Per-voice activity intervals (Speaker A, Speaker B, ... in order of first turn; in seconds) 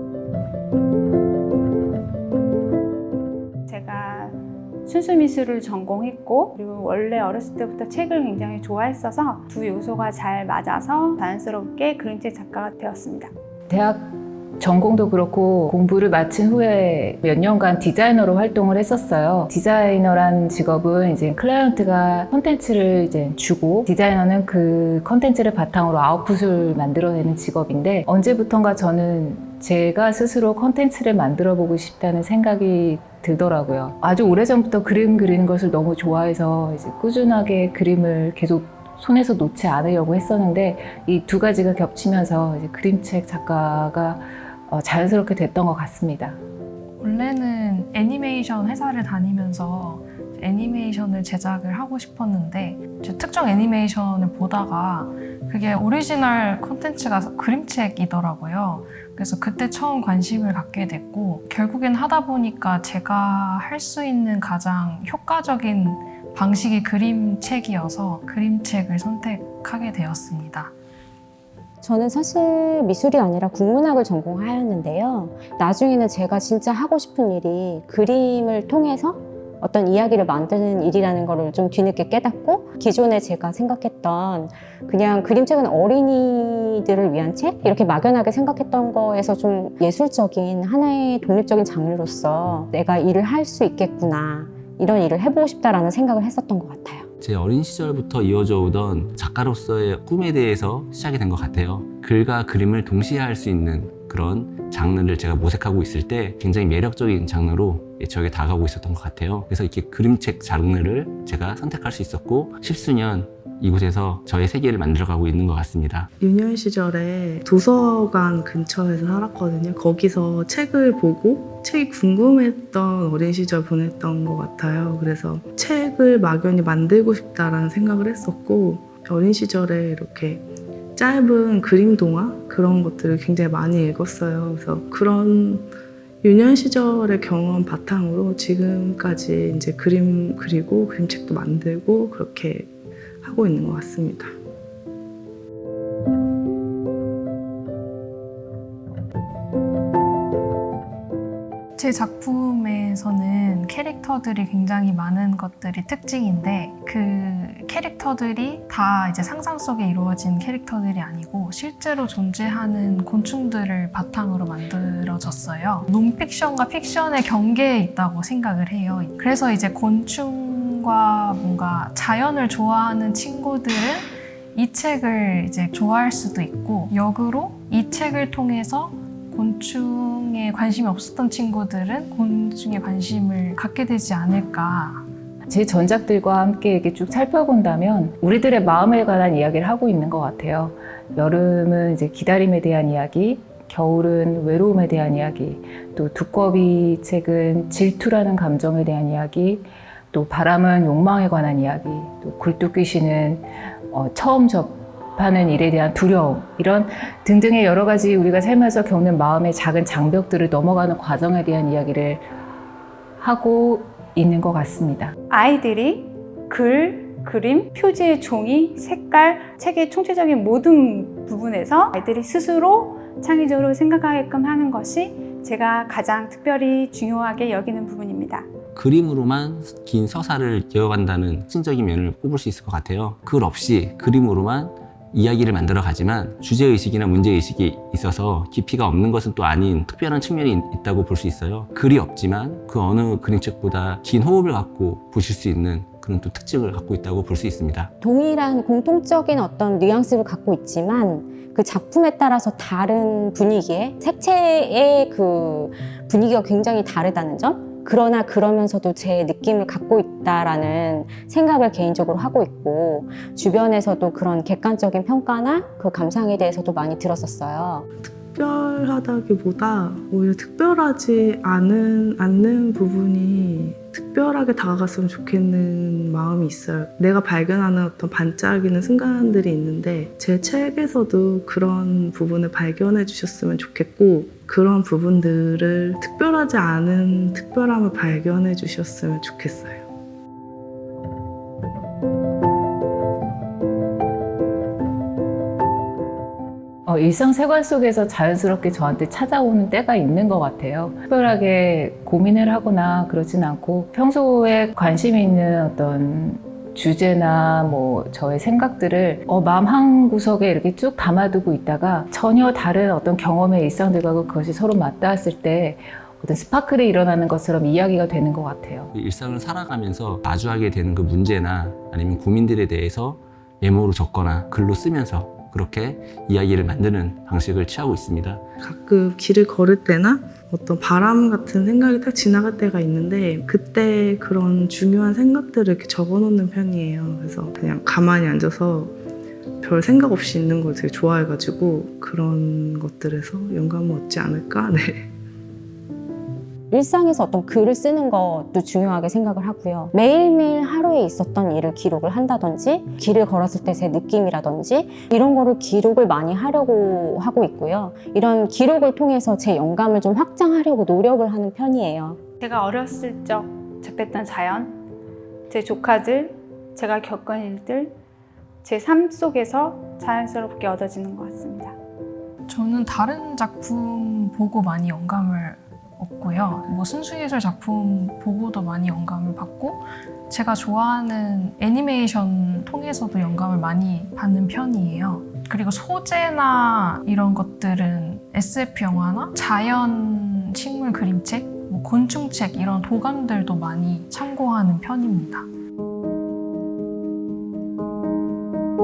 Speaker A: 3.7-13.3, 215.3-228.5, 362.4-364.8, 365.5-368.0, 368.6-371.8
Speaker B: 13.7-46.4, 185.5-212.3, 213.2-215.1, 296.9-318.9
Speaker C: 47.0-70.7, 151.8-185.1, 372.5-395.5
Speaker D: 71.8-97.1, 248.0-267.9, 346.7-362.2
Speaker E: 97.2-116.1, 228.8-247.9, 318.9-328.4
Speaker F: 116.2-130.4, 131.0-135.7, 136.2-142.7, 143.2-144.3, 268.0-289.9, 328.6-338.9, 339.6-345.1